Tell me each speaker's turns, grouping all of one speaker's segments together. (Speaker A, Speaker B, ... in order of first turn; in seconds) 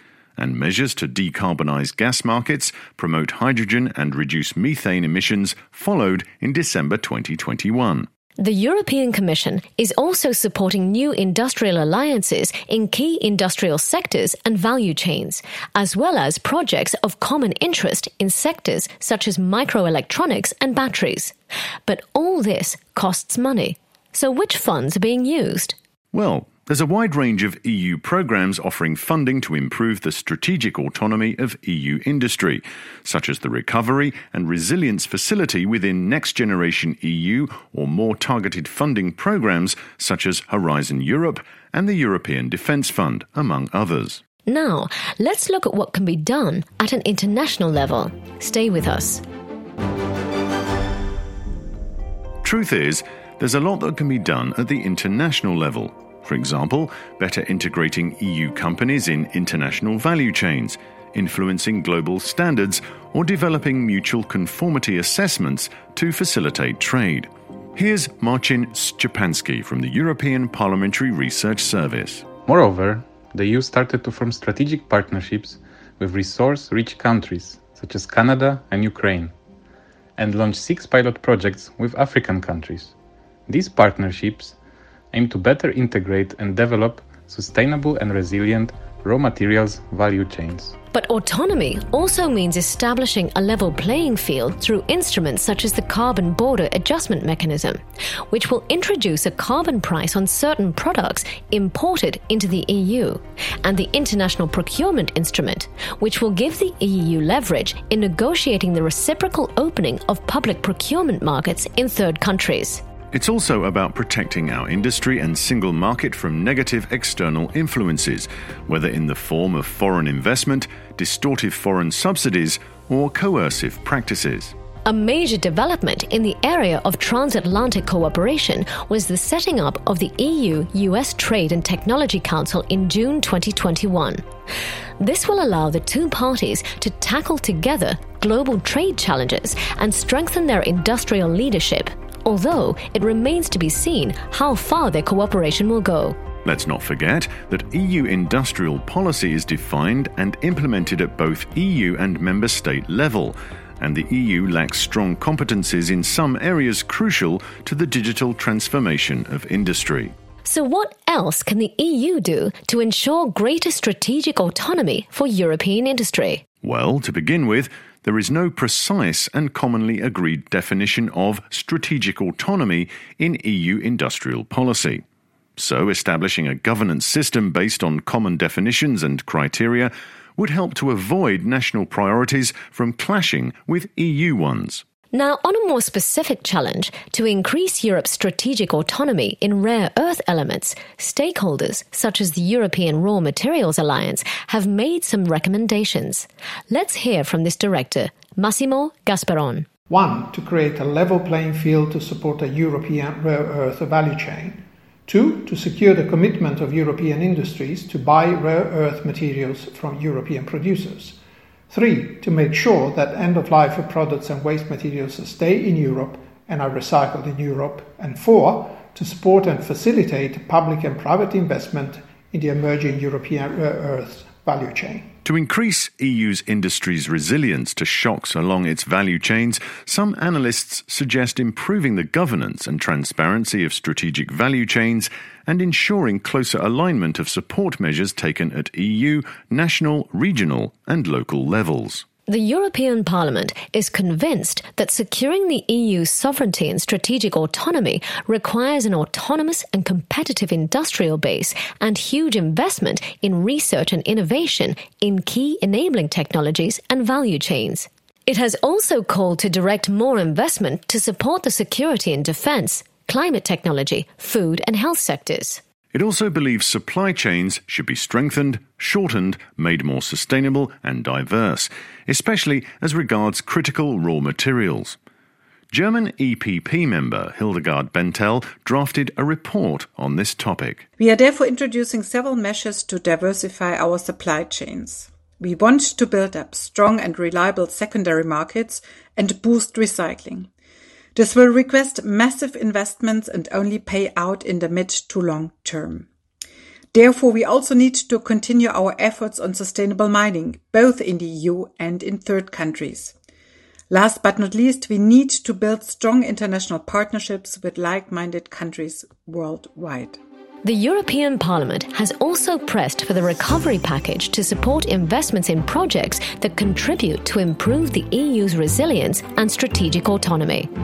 Speaker A: 0.4-8.1, 26.1-44.2, 52.4-72.3, 113.1-124.5, 146.4-160.1, 166.6-175.0, 175.6-184.8, 225.2-242.0, 265.9-275.0, 275.7-280.9
Speaker B: 8.4-21.3, 21.9-25.8, 44.5-49.2, 90.9-97.8, 98.3-112.8, 124.8-134.2, 135.0-146.2, 160.4-166.4, 185.1-199.7, 242.3-265.6, 310.6-320.7
Speaker C: 72.5-79.3, 80.2-82.9, 83.5-84.6, 85.1-90.8
Speaker D: 199.9-211.2, 211.7-225.1
Speaker E: 281.0-290.5, 291.1-296.1, 296.9-303.1, 303.9-310.2